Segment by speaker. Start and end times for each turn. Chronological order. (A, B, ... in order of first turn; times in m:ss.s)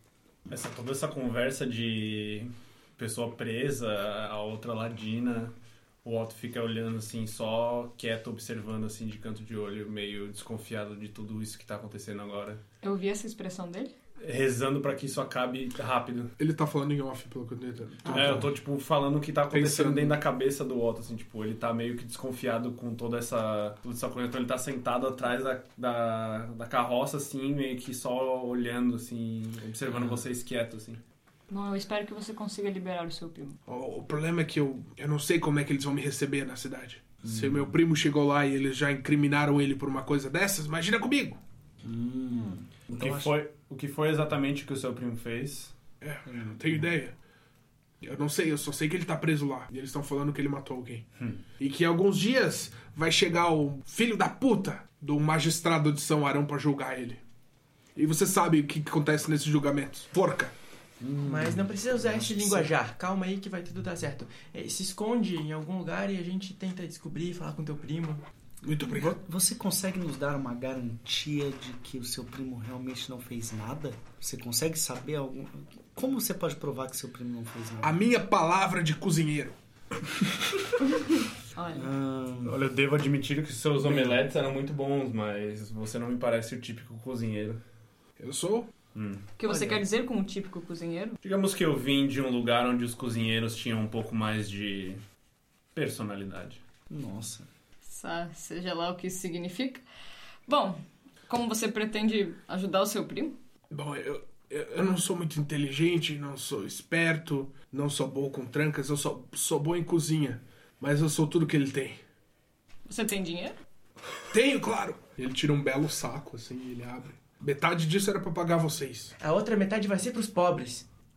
0:00.5-0:12.6 A
0:12.8-0:13.9 B
0:14.2-0:16.3 A
0:16.4-0:18.5 C
0:18.1-0:31.0 A
0:18.2-0:18.4 D
0:19.5-0:20.2 C
0:29.8-0:30.2 E
0:31.5-0:33.6 B
0:33.7-0:41.4 C
0:37.2-0:37.7 D
0:41.8-0:43.3 D
0:43.0-0:45.8 A
0:46.0-0:47.2 C
0:46.3-0:46.8 D
0:48.0-0:51.1 C
0:51.6-0:57.2 C
0:58.0-1:00.6 C
1:01.0-1:02.7 D
1:01.2-1:08.2 E
1:08.6-1:09.2 C
1:08.8-1:18.0 D
1:17.8-1:19.6 C
1:21.6-1:21.9 B
1:21.7-1:22.6 D
1:22.4-1:27.6 A
1:23.8-1:24.2 D
1:28.2-1:28.7 C
1:29.0-1:29.3 A
1:29.4-1:31.2 B
1:31.2-1:35.0 A
1:35.7-1:36.6 A
1:36.9-1:37.5 D
1:37.8-1:39.8 B
1:40.5-1:43.4 B
1:43.7-1:52.0 C
1:52.9-1:53.6 B
1:54.3-1:59.1 C
1:59.2-2:00.9 E